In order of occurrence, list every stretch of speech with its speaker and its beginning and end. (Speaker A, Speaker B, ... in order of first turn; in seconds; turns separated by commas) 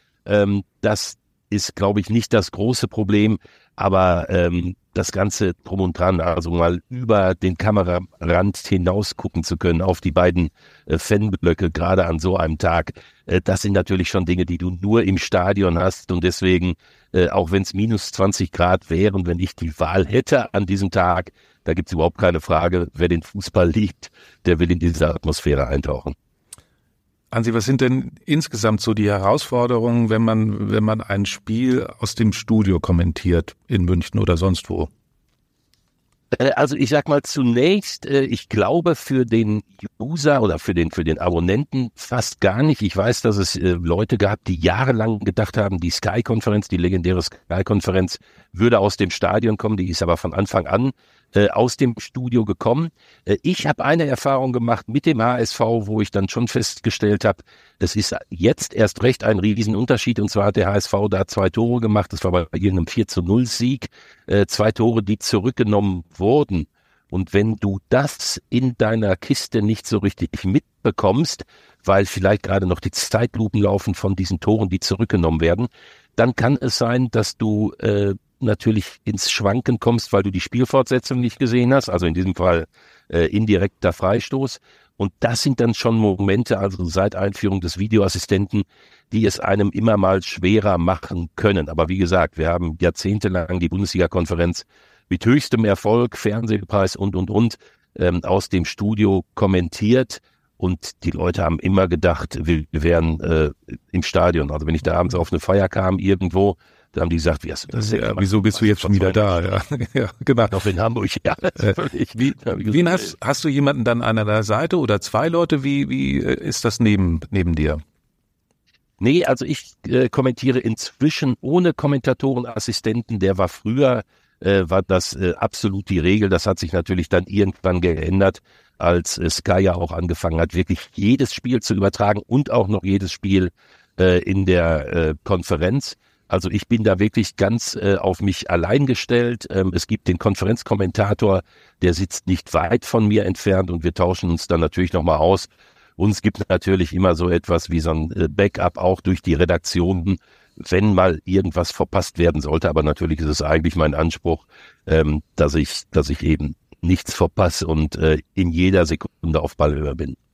Speaker A: 0.3-26.1, Speaker B: 27.3-34.9, Speaker A: 36.3-109.2, Speaker B: 107.7-110.6, Speaker A: 110.5-113.1, Speaker B: 111.6-117.8, Speaker A: 119.0-160.2